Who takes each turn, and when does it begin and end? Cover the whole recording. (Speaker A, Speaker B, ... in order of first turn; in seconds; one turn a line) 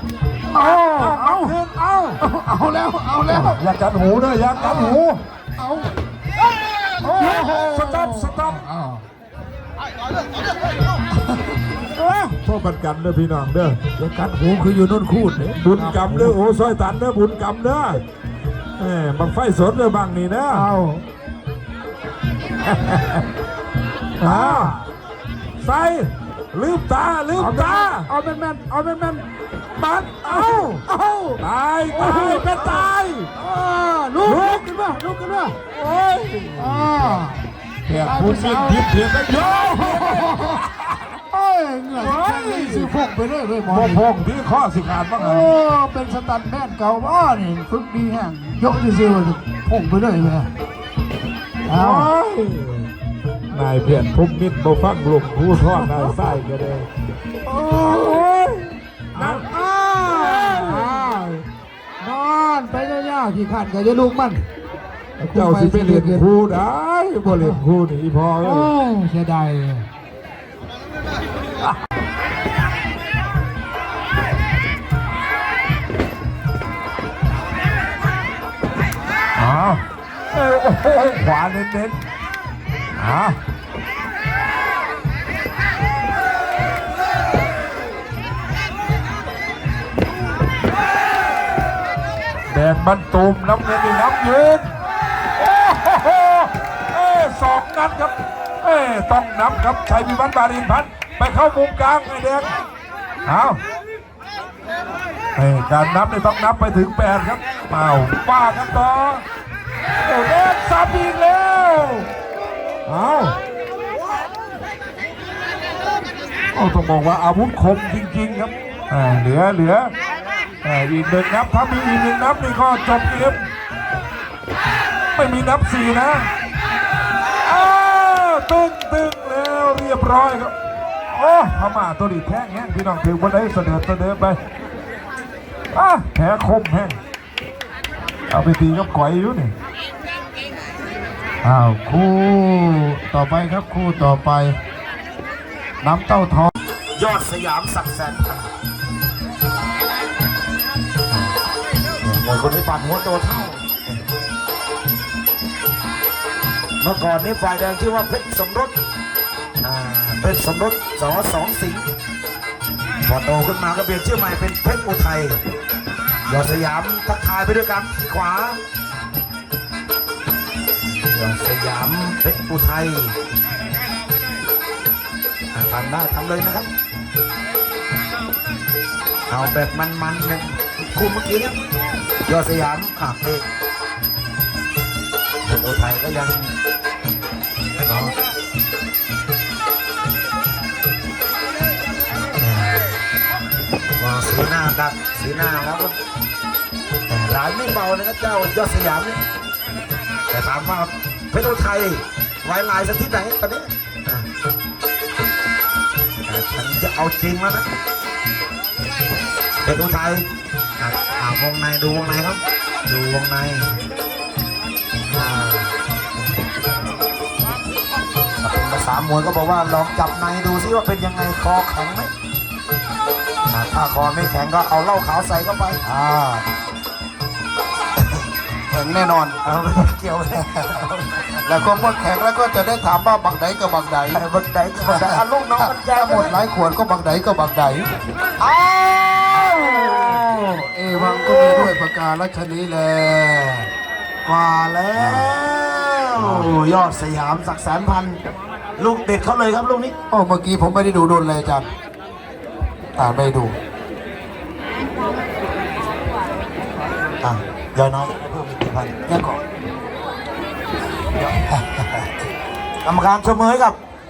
Speaker A: 0.5-1.6
Speaker B: 0.5-2.2
Speaker A: 2.2-3.6
Speaker B: 3.3-5.1
Speaker A: 4.5-6.0
Speaker A: 7.0-9.1
Speaker B: 7.3-8.6
Speaker B: 11.9-13.8
Speaker A: 14.0-16.4
Speaker B: 15.5-18.0
Speaker B: 18.8-20.7
Speaker A: 20.5-21.0
Speaker B: 22.6-23.3
Speaker B: 24.2-24.8
Speaker A: 24.2-24.9
Speaker B: 25.6-28.1
Speaker A: 27.4-35.6
Speaker B: 31.4-33.3
Speaker B: 34.2-34.6
Speaker B: 35.7-37.3
Speaker A: 36.5-40.7
Speaker B: 37.9-41.0
Speaker A: 41.3-44.2
Speaker B: 42.0-42.9
Speaker B: 43.7-45.6
Speaker A: 45.2-50.5
Speaker A: 51.7-52.1
Speaker B: 51.7-52.9
Speaker B: 53.5-56.9
Speaker A: 55.7-56.2
Speaker A: 57.5-58.2
Speaker B: 57.7-59.5
Speaker A: 59.1-61.5
Speaker B: 60.0-61.1
Speaker A: 62.0-64.5
Speaker A: 65.2-66.3
Speaker B: 65.3-68.7
Speaker A: 67.2-67.6
Speaker A: 68.4-69.9
Speaker B: 79.4-82.0
Speaker B: 83.0-83.4
Speaker B: 92.5-94.7
Speaker B: 95.4-102.5
Speaker B: 103.3-103.6
Speaker B: 105.4-109.2
Speaker B: 110.0-112.1
Speaker B: 112.9-113.4
Speaker B: 116.5-120.0
Speaker B: 120.6-123.5
Speaker B: 125.1-126.3
Speaker B: 127.4-130.6
Speaker B: 131.1-134.4
Speaker B: 135.7-137.0
Speaker B: 138.3-139.5
Speaker A: 141.4-144.6
Speaker A: 145.8-146.5
Speaker C: 147.0-148.5
Speaker C: 152.0-154.0
Speaker C: 156.8-158.8
Speaker C: 159.6-161.9
Speaker C: 163.0-165.4
Speaker C: 166.3-168.6
Speaker C: 170.9-173.2
Speaker C: 175.5-176.7
Speaker C: 179.3-181.6
Speaker C: 182.2-183.4
Speaker C: 185.4-186.5
Speaker C: 187.8-188.2
Speaker C: 192.4-193.0
Speaker C: 194.0-196.0
Speaker C: 197.1-199.2
Speaker C: 200.3-204.3
Speaker C: 206.2-207.7
Speaker C: 209.6-210.3
Speaker C: 210.8-213.8
Speaker C: 215.1-215.7
Speaker C: 218.4-222.1
Speaker C: 223.5-225.8
Speaker A: 225.8-226.5
Speaker A: 228.7-229.4
Speaker C: 229.4-231.4
Speaker A: 231.4-234.3
Speaker C: 234.1-236.4
Speaker A: 234.8-237.9
Speaker C: 238.4-241.8
Speaker A: 240.1-243.7
Speaker C: 244.2-248.2
Speaker A: 244.9-245.4
Speaker A: 246.2-246.5
Speaker C: 248.8-249.9
Speaker A: 250.1-251.7
Speaker A: 253.0-253.6
Speaker C: 257.2-259.0
Speaker A: 259.1-259.4
Speaker C: 262.8-263.8